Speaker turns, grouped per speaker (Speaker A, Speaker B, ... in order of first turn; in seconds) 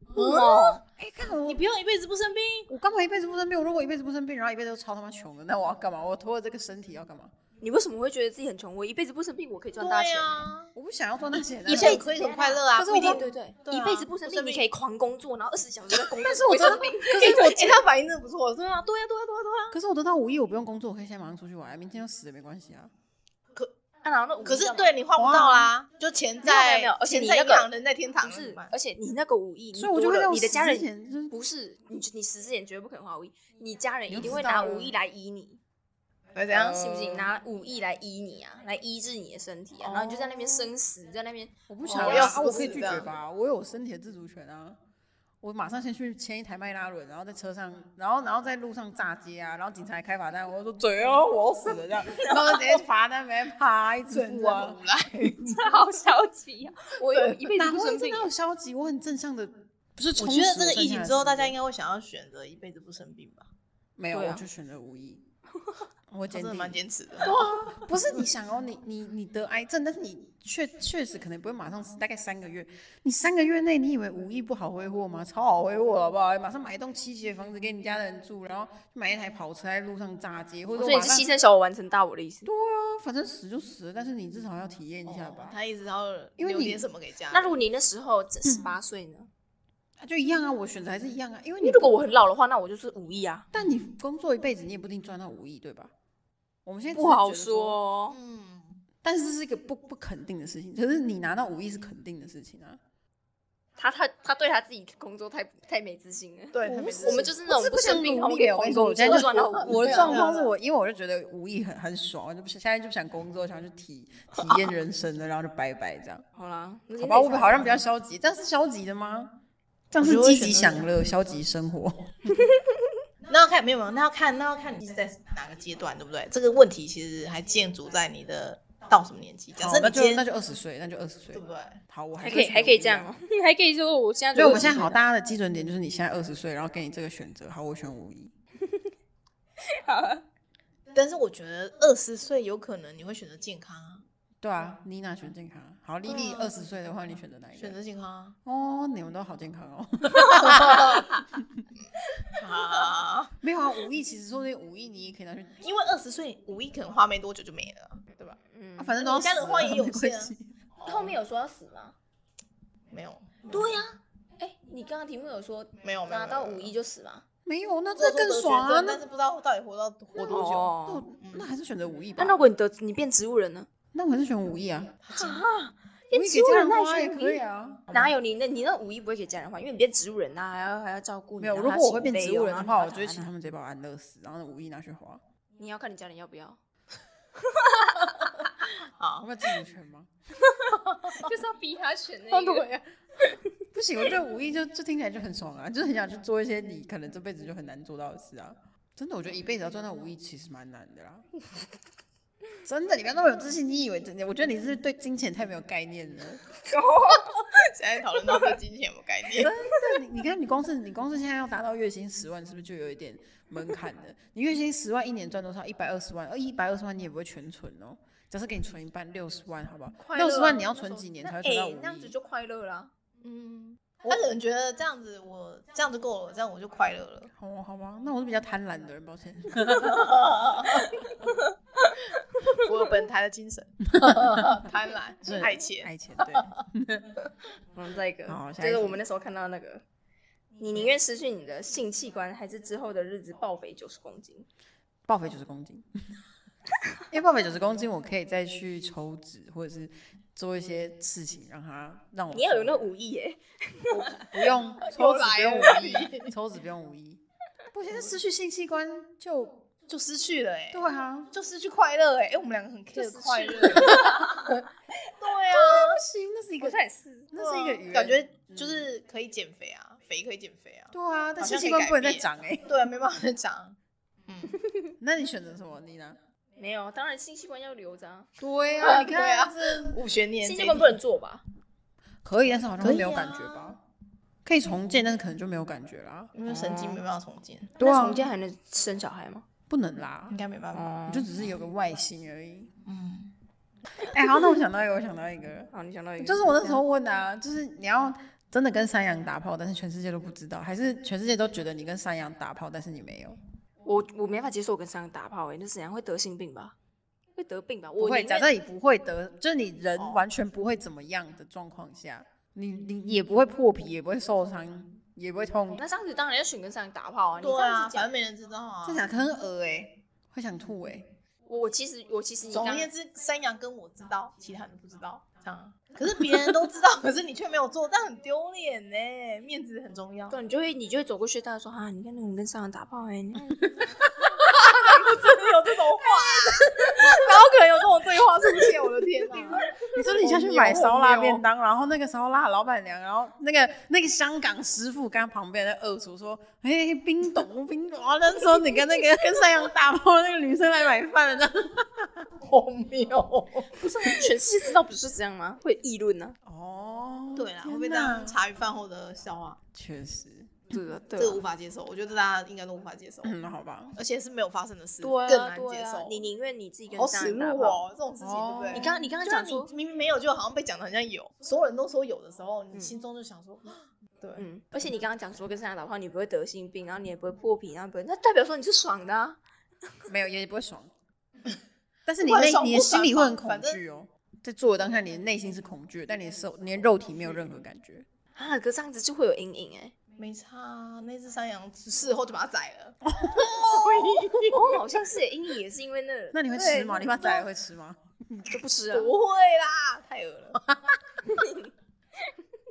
Speaker A: 0.1-0.8, 1.4-2.7, 9.8-10.7, 11.7-14.7, 16.3-19.8, 24.4-28.7, 36.4-36.8, 41.9-43.1, 52.4-52.8, 54.1-55.6, 57.1-57.5, 60.2-63.5, 66.3-67.4, 85.1-87.5, 98.1-98.8, 106.5-107.4, 109.0-110.5, 120.0-120.9, 123.3-130.2, 131.3-131.8, 140.9-144.0, 146.1-146.6, 147.6-148.4, 150.4-151.1, 152.3-153.3, 155.6-158.4, 159.0-161.2, 162.9-163.8, 165.8-166.7, 168.0-171.5, 175.0-175.5, 189.0-189.3, 190.7-191.3, 192.3-192.9, 207.7-209.5, 223.2-227.3, 229.7-231.0, 232.5-236.6, 254.8-256.3, 259.9-264.6, 265.2-266.0, 267.4-274.6, 278.8-281.0, 282.8-283.7, 286.3-287.8, 290.3-290.9, 292.9-293.3, 310.0-310.2, 317.4-319.1, 322.5-330.4, 334.4-341.4, 352.4-354.2, 357.4-359.6, 361.2-363.4, 363.9-366.3, 366.9-374.5, 382.2-383.8, 390.2-394.6, 398.9-400.7
Speaker B: 0.1-0.8, 7.6-10.5, 11.7-17.7, 24.0-25.0, 26.4-27.7, 28.2-35.6, 36.5-42.9, 55.5-58.3, 64.1-64.5, 67.3-67.8, 80.8-82.5, 87.3-89.3, 91.6-93.5, 96.9-98.2, 103.8-110.3, 116.3-117.8, 122.3-122.7, 132.2-135.0, 139.7-140.2, 150.2-151.0, 158.5-159.0, 160.8-161.9, 163.5-167.2, 170.3-171.1, 172.2-173.7, 175.1-183.3, 185.6-186.6, 187.4-188.3, 191.1-192.7, 206.6-207.6, 220.0-222.9, 231.2-232.6, 237.8-239.8, 240.6-244.5, 252.3-254.2, 262.9-264.6, 266.6-267.3, 276.6-278.3, 280.4-281.4, 286.5-287.0, 287.8-289.4, 290.7-291.3, 295.7-296.8, 303.9-306.8, 307.4-308.5, 315.8-318.1, 321.5-322.9, 330.3-333.7, 334.5-335.0, 336.6-337.2, 353.8-356.4, 360.7-361.4, 365.0-367.8, 368.7-369.7, 374.4-379.4, 388.4-389.9, 394.5-397.4, 398.5-399.1, 401.2-401.7
Speaker C: 0.9-1.6, 2.7-7.3, 10.8-13.2, 16.2-17.8, 19.7-22.9, 25.1-25.7, 29.7-31.3, 34.1-34.9, 36.5-37.3, 39.8-40.7, 41.7-44.8, 45.4-54.8, 57.5-61.6, 64.0-65.2, 66.1-81.3, 82.5-85.6, 86.4-86.8, 90.0-92.0, 93.5-95.9, 96.7-97.8, 99.0-102.8, 106.7-116.2, 117.0-119.3, 119.9-122.1, 129.6-133.1, 134.3-138.3, 144.4-147.8, 148.4-151.6, 153.4-155.6, 158.8-160.4, 167.5-169.0, 170.4-172.4, 173.9-175.0, 176.1-177.8, 181.4-185.2, 189.2-190.1, 193.7-201.3, 202.6-206.4, 209.3-222.1, 227.3-230.3, 233.9-234.5, 235.2-237.1, 238.3-239.0, 245.1-245.9, 247.1-252.9, 253.9-257.2, 257.7-259.6, 260.7-261.3, 265.5-266.8, 267.3-268.9, 270.9-272.7, 275.0-276.2, 278.4-280.0, 282.2-283.8, 284.4-286.4, 287.8-288.3, 289.7-290.4, 291.1-292.7, 294.1-303.4, 308.0-315.8, 318.8-321.1, 333.5-333.8, 339.3-352.3, 356.4-358.4, 359.7-360.6, 363.2-364.0, 368.2-368.9, 380.1-380.9, 382.1-388.1, 393.1-394.5, 396.3-398.6